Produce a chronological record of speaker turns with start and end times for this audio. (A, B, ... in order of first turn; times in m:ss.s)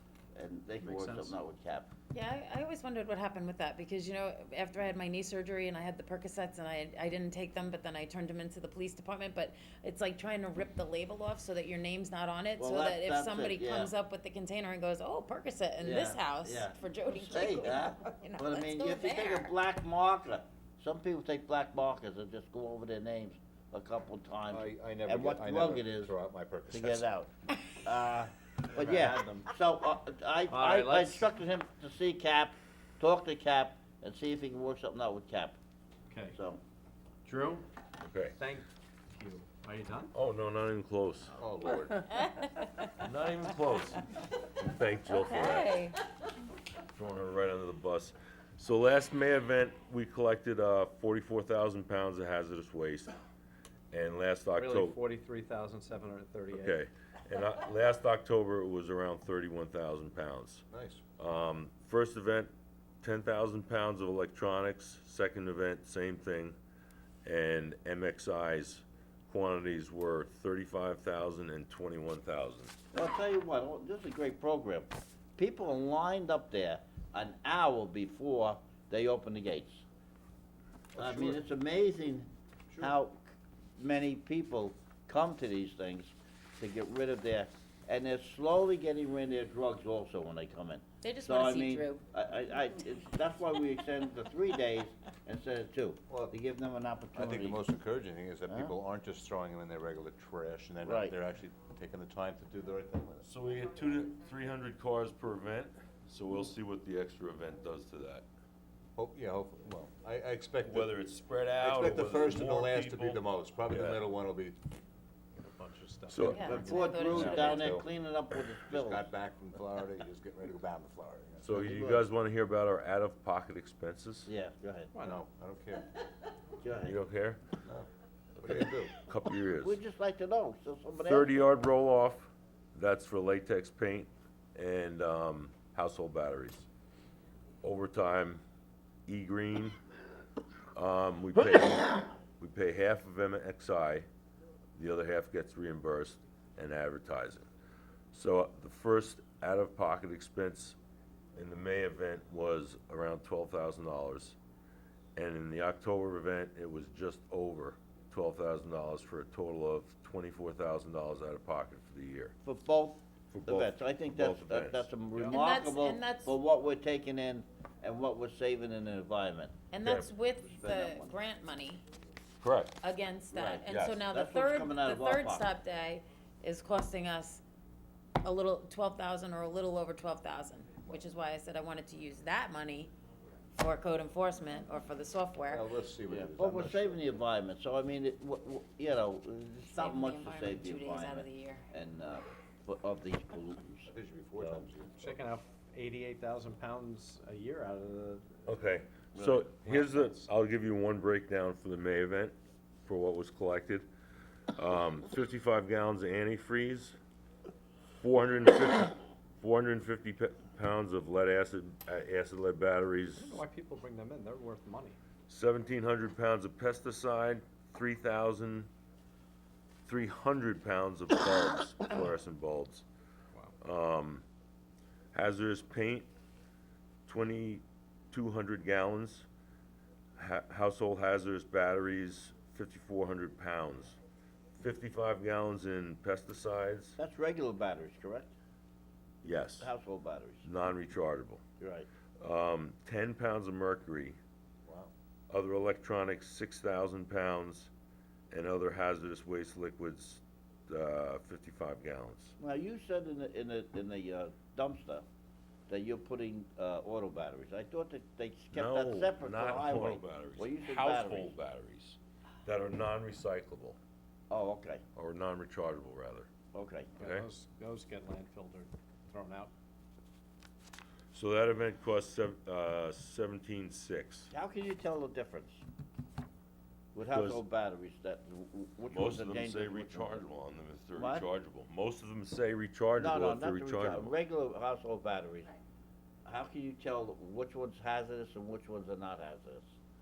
0:00.3-0:01.9 A
0:00.8-0:01.4 B
0:02.1-0:19.5 C
0:12.6-0:13.9 A
0:15.8-0:26.1 A
0:24.5-0:27.0 D
0:26.7-0:35.6 A
0:28.8-0:29.1 B
0:30.5-0:31.2 B
0:36.1-0:36.4 B
0:36.3-0:36.6 A
0:37.2-0:37.6 B
0:38.0-0:38.3 E
0:38.4-0:40.1 B
0:40.1-0:41.4 E
0:41.4-0:42.0 D
0:42.1-0:42.9 C
0:43.0-0:45.8 E
0:45.1-0:46.0 C
0:46.9-0:53.1 E
0:53.9-0:55.0 E
0:54.5-0:56.8 B
0:56.5-1:00.6 E
1:00.7-1:01.0 D
1:01.2-1:06.6 E
1:07.2-1:12.7 E
1:12.9-1:19.8 A
1:20.9-1:21.4 D
1:21.0-1:23.2 A
1:23.8-1:37.6 A
1:31.0-1:32.0 C
1:37.2-1:43.3 D
1:40.8-1:41.1 A
1:43.2-1:48.2 E
1:49.0-1:50.9 D
1:50.6-1:54.0 E
1:51.6-1:54.6 D
1:55.4-1:57.2 B
1:56.1-1:56.5 E
1:56.2-1:57.8 C
1:56.4-1:59.0 A
1:57.1-1:57.9 D
1:58.7-2:01.5 D
2:01.4-2:04.3 E
2:01.5-2:02.1 A
2:04.2-2:04.9 A
2:04.9-2:05.2 B
2:05.0-2:05.9 D
2:06.6-2:07.0 A
2:06.8-2:07.4 E
2:08.4-2:09.8 E
2:08.4-2:09.0 D
2:09.6-2:11.4 A
2:11.0-2:16.7 E
2:17.6-2:18.4 E
2:19.1-2:19.8 E
2:20.7-2:24.1 E
2:24.7-2:27.5 E
2:28.1-2:30.8 E
2:31.4-2:34.4 E
2:35.2-2:42.3 E
2:42.4-2:49.6 A
2:43.3-2:44.9 E
2:45.3-2:46.3 C
2:49.7-2:51.8 C
2:49.8-2:50.1 E
2:50.5-2:51.2 A
2:52.4-2:52.8 E
2:52.8-2:57.4 C
2:53.3-2:55.5 A
2:53.7-2:54.0 E
2:58.2-3:02.9 C
3:03.6-3:05.6 C
3:05.5-3:07.0 D
3:06.1-3:14.7 A
3:09.7-3:11.6 C
3:13.9-3:15.2 D
3:15.0-3:18.6 B
3:18.5-3:23.9 E
3:19.1-3:19.4 A
3:19.6-3:20.2 B
3:24.5-3:27.0 E
3:28.0-3:33.4 E
3:33.2-3:35.0 B
3:35.3-3:38.7 E
3:39.8-3:42.8 E
3:43.6-3:44.2 E
3:45.1-3:46.1 E
3:47.1-3:49.3 E
3:50.2-3:54.0 E
3:54.6-3:57.0 E
3:57.0-3:58.3 A
3:59.2-3:59.7 E
3:59.6-4:00.5 A
4:00.4-4:01.4 E
4:01.6-4:01.9 A
4:02.2-4:04.2 E
4:05.3-4:07.7 E
4:08.3-4:12.3 E
4:12.4-4:15.0 A
4:15.7-4:21.3 A
4:18.5-4:23.8 E
4:24.3-4:24.8 A
4:24.9-4:26.3 E
4:26.5-4:27.0 A
4:27.0-4:27.3 E
4:27.0-4:29.5 B
4:31.1-4:34.3 E
4:34.3-4:35.6 A
4:36.9-4:40.2 A
4:37.1-4:37.4 E
4:38.9-4:44.1 E
4:41.0-4:41.3 A
4:43.0-4:45.5 A
4:46.2-4:49.7 A